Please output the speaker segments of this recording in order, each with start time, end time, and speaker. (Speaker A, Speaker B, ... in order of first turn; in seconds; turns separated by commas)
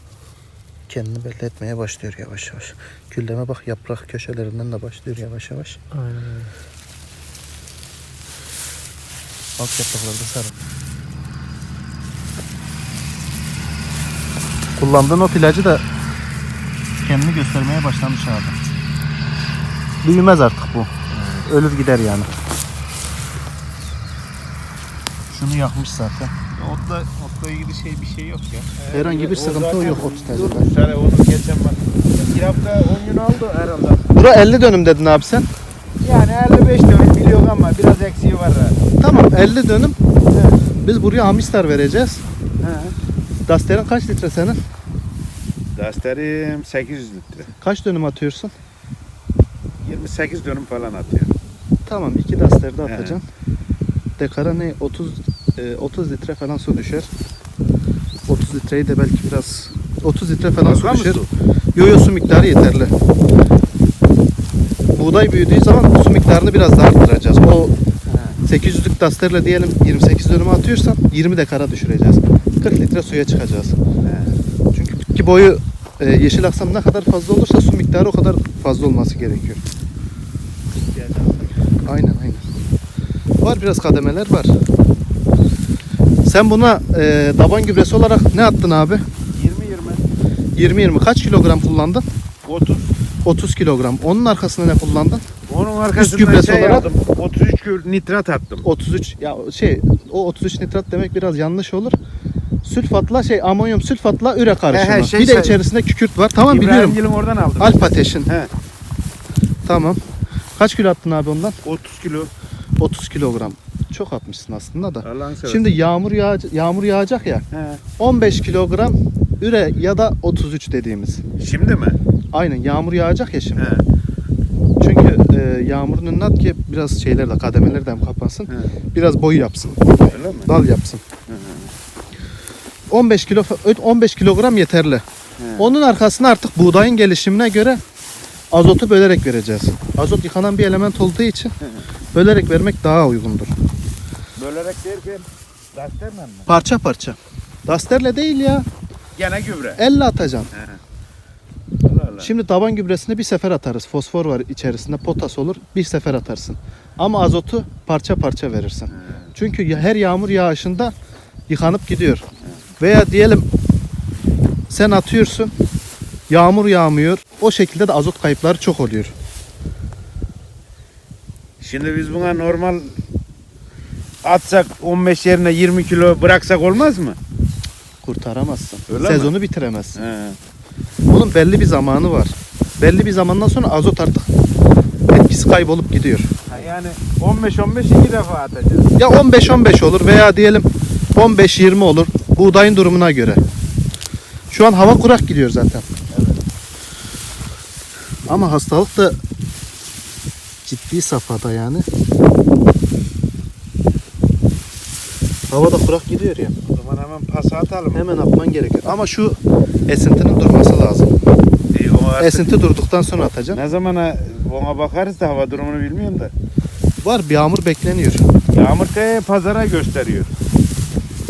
Speaker A: 0.9-5.8, Speaker B: 5.9-6.5, Speaker A: 9.6-10.6, Speaker A: 14.8-15.8, Speaker A: 17.0-18.6, Speaker A: 20.0-20.9, Speaker C: 21.1-21.5, Speaker A: 21.4-22.3, Speaker A: 25.3-26.3, Speaker B: 26.6-28.7, Speaker C: 28.8-34.1, Speaker A: 28.9-30.7, Speaker A: 34.1-35.5, Speaker C: 36.0-38.8, Speaker A: 39.0-40.0, Speaker C: 40.3-40.6, Speaker A: 40.8-42.2, Speaker C: 42.6-43.0, Speaker A: 43.5-44.6, Speaker C: 45.8-47.5, Speaker A: 47.6-48.5, Speaker C: 49.8-51.3, Speaker A: 51.9-53.2, Speaker C: 52.9-53.2, Speaker A: 54.2-57.1, Speaker A: 58.3-61.2, Speaker C: 60.6-61.3, Speaker A: 61.8-62.9, Speaker A: 64.9-67.8, Speaker C: 68.1-68.4, Speaker A: 68.5-73.8, Speaker C: 74.0-74.4, Speaker A: 74.7-79.6, Speaker C: 80.8-81.6, Speaker A: 81.8-82.5, Speaker A: 83.4-84.5, Speaker A: 86.2-89.0, Speaker C: 89.4-90.0, Speaker A: 90.5-92.0, Speaker C: 92.5-92.9, Speaker A: 93.2-95.2, Speaker C: 95.5-98.7, Speaker A: 96.0-96.9, Speaker A: 98.6-102.0, Speaker A: 102.6-107.0, Speaker C: 104.7-105.6, Speaker C: 106.5-108.5, Speaker A: 107.6-108.3, Speaker A: 109.7-110.0, Speaker A: 110.6-111.6, Speaker C: 111.6-112.3, Speaker A: 112.8-117.4, Speaker C: 115.0-115.7, Speaker C: 117.5-117.8, Speaker A: 118.0-121.2, Speaker C: 121.4-122.0, Speaker A: 122.3-123.8, Speaker C: 123.6-123.8, Speaker A: 124.8-131.0, Speaker C: 130.0-130.5, Speaker C: 131.3-131.7, Speaker A: 132.9-135.0, Speaker C: 135.4-135.8, Speaker A: 135.6-137.8, Speaker A: 138.5-141.5, Speaker A: 142.1-143.5, Speaker C: 144.4-146.5, Speaker A: 146.5-148.7, Speaker C: 149.2-149.8, Speaker A: 149.8-150.5, Speaker C: 150.5-150.8, Speaker C: 151.8-152.3, Speaker A: 152.2-160.9, Speaker A: 161.5-162.2, Speaker A: 162.8-163.4, Speaker A: 164.7-165.5, Speaker A: 166.3-169.1, Speaker C: 171.6-172.9, Speaker C: 174.2-177.2, Speaker A: 178.0-180.0, Speaker C: 178.9-179.3, Speaker C: 180.0-180.4, Speaker A: 181.1-184.3, Speaker A: 185.1-186.4, Speaker C: 186.5-188.9, Speaker A: 189.0-193.4, Speaker A: 194.5-195.9, Speaker C: 196.1-196.4, Speaker A: 198.3-199.2, Speaker A: 200.7-201.9, Speaker A: 205.5-206.6, Speaker C: 206.7-208.1, Speaker A: 207.9-211.1, Speaker C: 211.7-212.6, Speaker A: 212.2-213.6, Speaker C: 213.5-216.3, Speaker A: 217.0-218.3, Speaker C: 218.5-220.3